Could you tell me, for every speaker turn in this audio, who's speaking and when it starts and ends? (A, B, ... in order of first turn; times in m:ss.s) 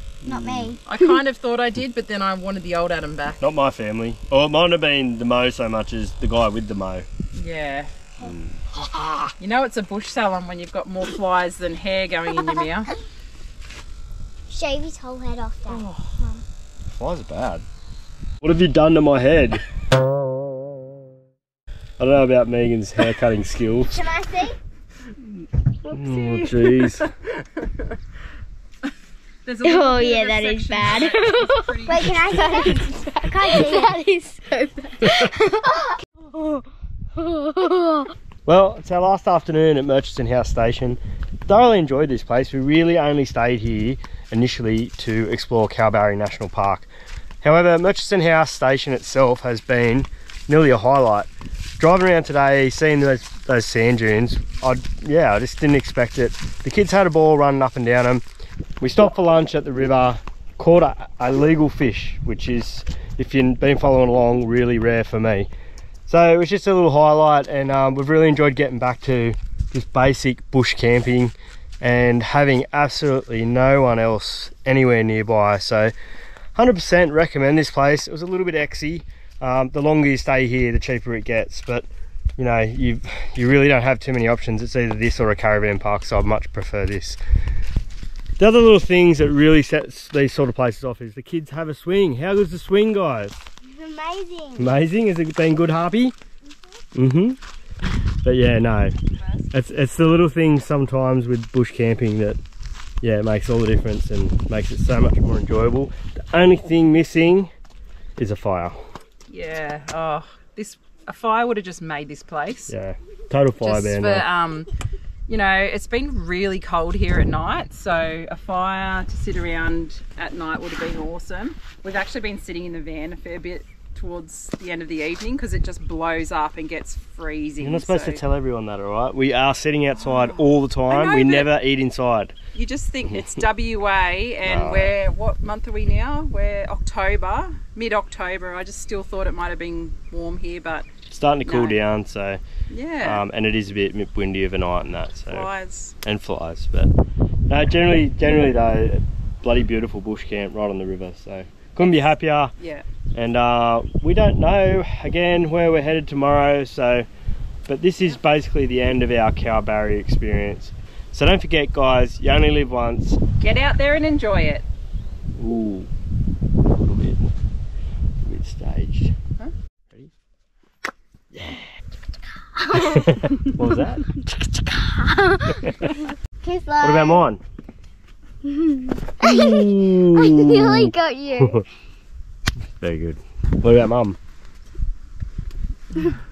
0:00.2-0:00.8 A
0:00.2-0:00.8 B
0:00.8-0:03.4 C
0:03.4-0:07.0 A
0:07.3-0:07.9 C
0:08.2-0:09.3 A
0:09.4-0:12.9 C
0:14.5-0:16.3 B
0:15.7-0:16.2 C
0:16.8-0:17.6 A
0:18.4-0:19.6 A
0:22.0-0:24.0 A
0:23.9-0:24.6 B
0:25.9-0:27.0 A
0:25.9-0:27.9 C
0:29.4-0:33.9 C
0:29.6-0:36.6 B
0:35.0-0:35.3 A
0:37.2-0:38.1 B
0:38.4-0:46.9 A
0:47.4-0:58.2 A
0:58.8-1:05.5 A
1:06.1-1:15.9 A
1:16.6-1:27.2 A
1:28.4-1:33.5 A
1:33.7-1:34.7 B
1:34.6-1:36.1 A
1:36.9-1:37.4 A
1:38.2-1:38.9 A
1:39.5-1:42.4 A
1:43.0-1:47.5 A
1:48.2-1:48.8 A
1:49.3-1:52.7 C
1:52.7-1:54.2 A
1:53.6-1:54.7 C
1:55.3-2:08.2 C
2:07.6-2:12.3 A
2:10.9-2:11.5 C
2:12.5-2:20.9 C
2:14.4-2:14.9 A
2:21.1-2:22.4 A
2:21.4-2:21.8 C
2:22.7-2:23.2 C
2:23.0-2:25.5 A
2:25.3-2:26.0 C
2:26.0-2:27.0 A
2:27.5-2:32.5 A
2:32.6-2:32.8 C
2:33.1-2:37.1 A
2:37.7-2:43.2 A
2:43.4-2:44.6 C
2:45.4-2:45.9 A
2:46.6-2:47.3 A
2:48.2-2:49.1 A
2:51.3-2:51.7 A
2:52.6-2:53.5 B
2:52.8-2:54.0 A
2:54.1-2:57.2 B
2:55.6-2:56.0 A
2:56.8-2:57.4 A
2:58.4-3:01.7 B
2:59.2-3:01.6 A
3:02.8-3:04.2 A